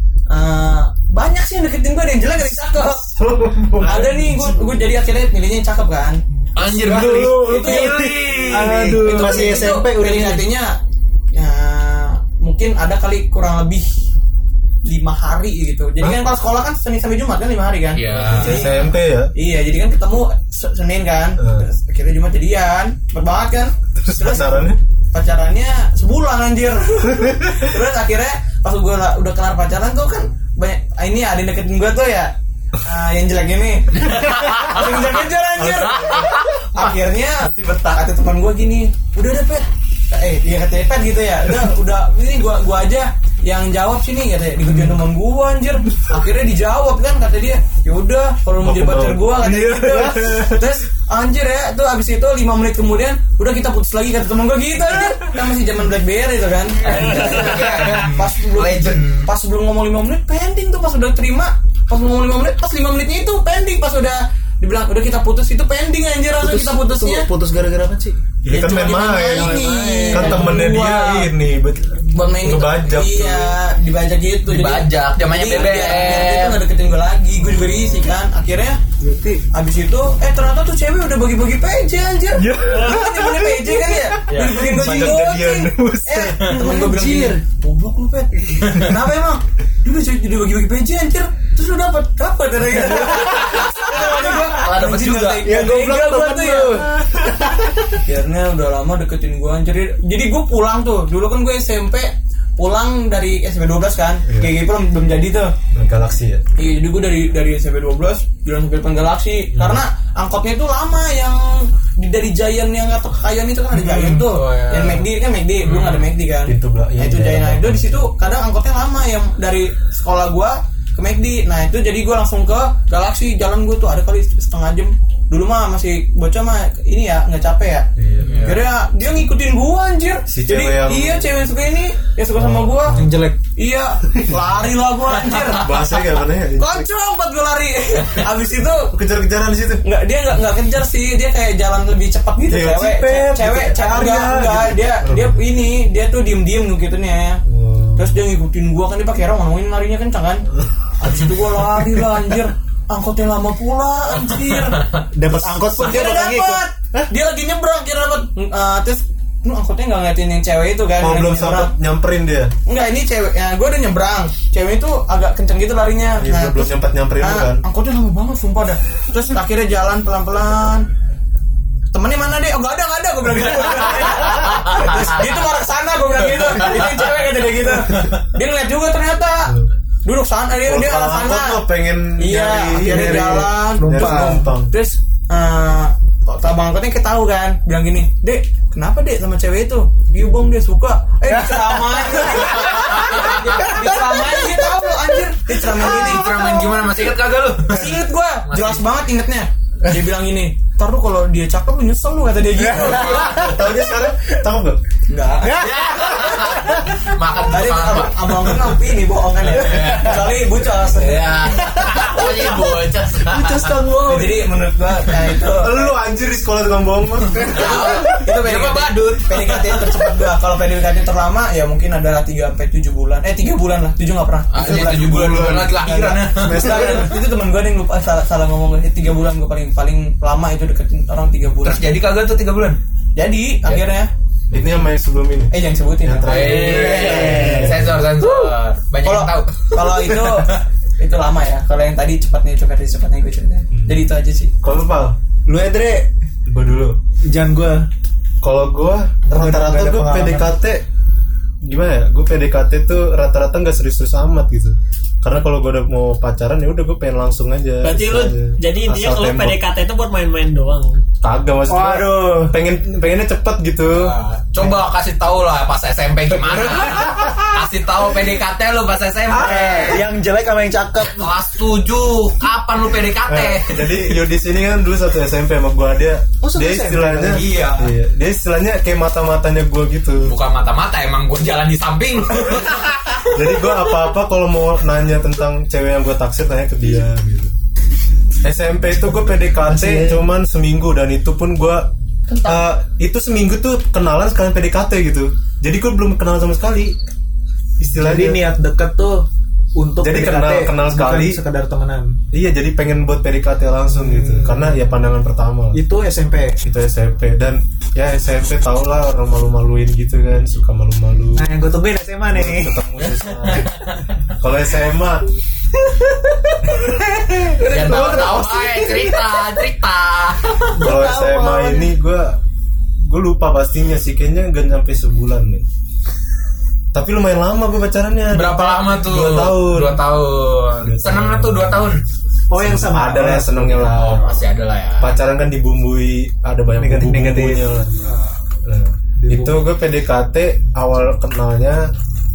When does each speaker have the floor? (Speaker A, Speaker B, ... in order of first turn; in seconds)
Speaker A: 0.3-3.1, 3.8-10.8, 11.3-14.0, 14.8-67.3, 68.5-71.3, 72.1-78.8, 79.5-96.9, 98.0-105.5, 106.6-127.9, 128.4-133.0, 133.5-138.9, 139.8-147.4, 147.9-150.5, 151.0-161.7, 162.7-170.9, 171.9-181.6, 182.2-196.4, 197.7-203.4, 205.1-205.7, 207.5-211.4, 214.0-215.9, 217.5-231.8, 233.2-234.1, 235.5-237.2, 239.0-244.5, 292.3-292.6
Speaker B: 3.0-4.5, 6.8-8.0, 8.7-9.4, 18.2-19.3, 21.4-21.6, 24.0-24.8, 27.2-27.6, 35.6-36.3, 44.7-45.0, 48.6-50.7, 68.4-73.6, 82.5-83.3, 84.5-86.4, 104.3-104.6, 105.7-106.4, 109.5-109.8, 113.8-114.0, 116.4-118.1, 128.0-128.6, 130.3-131.3, 132.3-133.1, 135.5-136.9, 138.9-139.8, 142.5-145.4, 147.5-148.2, 161.0-162.5, 166.2-167.6, 180.6-184.7, 203.3-204.8, 215.5-218.0, 224.6-225.9, 234.5-238.0, 243.7-244.1, 244.6-245.2, 246.5-247.0, 248.4-250.8, 251.6-259.6, 261.2-264.1, 273.3-280.4, 283.3-287.5, 288.4-291.9, 292.4-297.0, 297.8-298.4, 300.0-301.4, 302.3-305.8, 306.6-311.5, 312.3-313.7, 314.4-315.3, 317.8-318.1, 320.8-322.4, 323.0-325.6, 326.9-330.0, 330.8-331.9, 332.5-334.4, 335.0-338.1, 338.6-341.9
Speaker C: 6.5-8.6, 17.9-18.7, 34.0-35.1, 35.7-36.9, 56.9-59.3, 69.3-70.5, 74.5-76.6, 84.3-84.8, 88.6-88.9, 93.4-95.4, 114.0-115.1, 115.6-116.1, 128.2-128.6, 135.3-135.6, 154.4-155.0, 192.8-193.5, 195.7-198.9, 202.8-203.6, 205.6-208.8, 209.4-213.8, 217.5-220.1, 224.5-226.9, 231.6-232.8, 236.2-240.4, 263.9-270.0, 271.0-274.1, 277.2-277.9, 280.2-283.3, 313.0-314.0, 317.6-320.7, 328.3-332.0, 333.9-335.2
Speaker D: 6.8-10.5, 66.4-68.2, 69.7-70.3, 79.0-79.4, 82.5-83.5, 86.5-87.4, 95.4-98.0, 132.9-133.4, 155.1-156.6, 182.8-184.5, 191.3-194.9, 202.6-203.6, 205.4-207.0, 211.7-212.3, 213.2-214.5, 226.3-227.1, 236.7-237.9, 245.4-246.1, 247.2-247.9, 249.3-250.5, 261.7-262.5, 269.3-271.3, 276.4-277.4, 289.7-290.2, 297.9-302.2, 304.0-304.8, 305.7-306.6, 311.4-312.8, 315.9-319.1, 320.7-321.9, 332.5-334.1, 336.8-338.2, 339.2-339.6
Speaker E: 7.5-8.8, 257.8-261.0